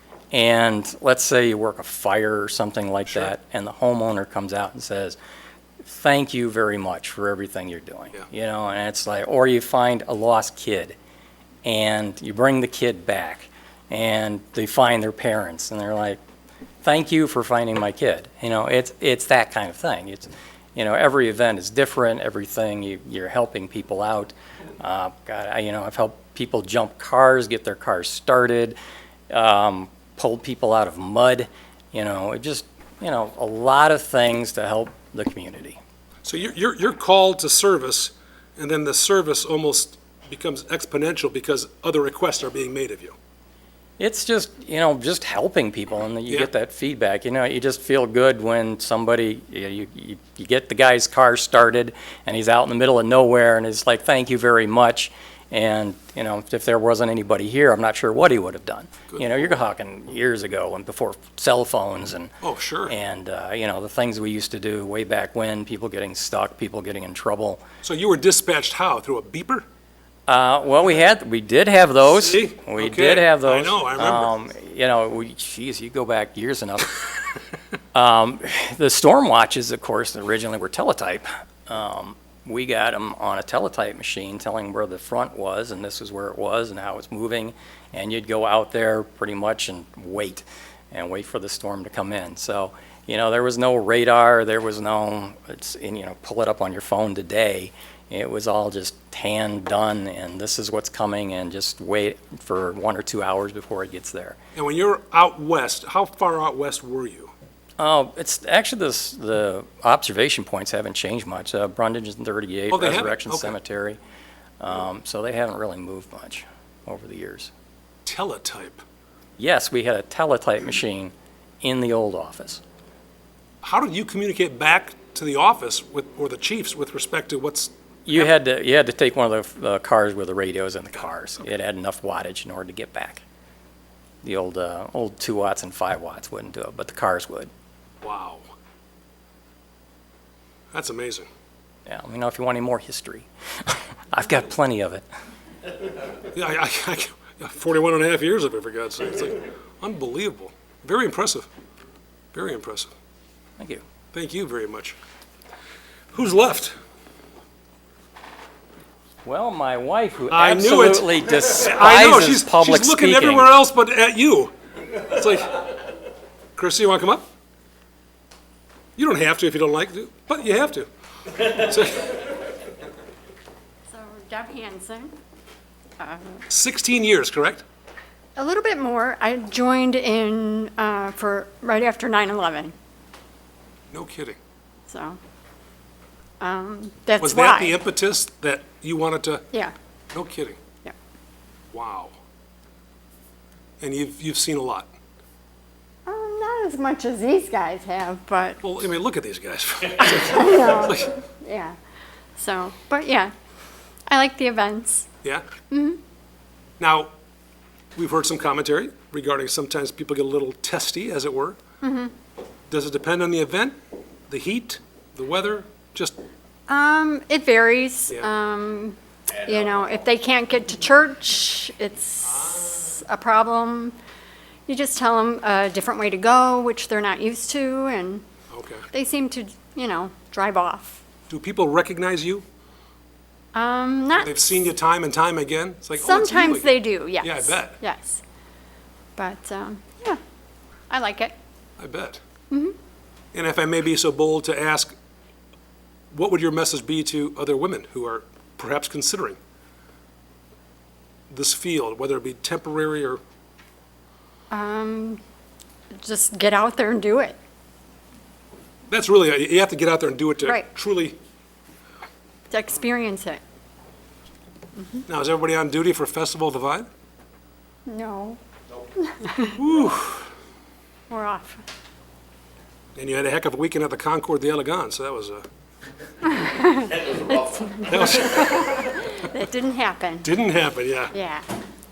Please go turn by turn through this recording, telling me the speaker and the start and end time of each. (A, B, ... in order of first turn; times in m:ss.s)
0:00.3-0:05.2 A
0:05.8-0:10.9 A
0:11.6-0:16.2 A
0:16.8-0:28.8 A
0:29.3-0:35.8 A
0:36.2-0:43.1 B
0:44.0-1:02.3 A
1:02.4-1:02.9 B
1:02.9-1:07.6 A
1:07.8-1:09.6 B
1:10.3-1:17.0 A
1:12.0-1:14.3 B
1:17.9-1:44.4 A
1:44.5-1:47.3 B
1:47.8-1:54.0 A
1:52.7-1:53.6 B
1:54.6-1:57.5 A
1:58.0-1:58.8 B
1:59.4-2:02.6 A
2:03.6-2:08.3 B
2:08.1-2:13.2 A
2:14.2-2:17.5 A
2:18.0-2:18.5 B
2:20.7-2:21.3 B
2:21.9-2:25.0 A
2:26.3-2:31.5 B
2:32.3-2:32.9 B
2:34.1-2:35.0 B
2:36.1-2:36.8 B
2:39.2-2:43.5 A
2:40.3-2:45.7 B
2:46.6-2:47.3 B
2:49.0-2:50.9 B
2:51.4-2:52.2 B
2:53.9-2:55.1 C
2:56.0-2:56.4 C
2:56.5-2:57.6 B
2:58.4-3:02.7 C
3:03.9-3:04.4 B
3:04.9-3:05.2 C
3:06.4-3:07.8 C
3:07.2-3:09.5 B
3:10.1-3:10.6 B
3:11.7-3:12.2 B
3:13.8-3:14.9 B
3:16.0-3:18.6 C
3:18.6-3:21.1 B
3:20.0-3:21.8 C
3:22.4-3:23.3 C
3:24.1-3:25.1 C
3:25.7-3:26.0 C
3:26.8-3:27.1 B
3:27.9-3:31.6 B
3:31.8-3:32.1 C
3:32.7-3:33.8 B
3:34.3-3:36.2 B
3:36.7-3:43.9 C
3:44.7-3:48.2 C
3:48.5-3:48.9 B
3:48.9-3:51.0 C
3:51.3-3:52.4 B
3:53.5-3:54.4 C
3:54.2-3:57.8 B
3:56.0-3:58.2 C
3:59.2-4:00.2 C
4:00.9-4:01.3 C
4:01.8-4:02.2 B
4:02.5-4:02.8 C
4:03.3-4:04.9 B
4:06.1-4:09.4 B
4:11.3-4:13.2 B
4:14.5-4:15.2 C
4:16.0-4:17.4 C
4:18.9-4:21.2 B
4:22.5-4:23.4 C
4:24.8-4:25.0 C
4:25.1-4:26.9 B
4:27.8-4:28.4 C
4:29.0-4:29.6 C
4:29.6-4:30.3 B
4:31.1-4:31.6 C
4:32.9-4:35.4 B
4:36.2-4:40.3 C
4:37.9-4:38.9 B
4:40.2-4:41.1 B
4:41.1-4:41.4 C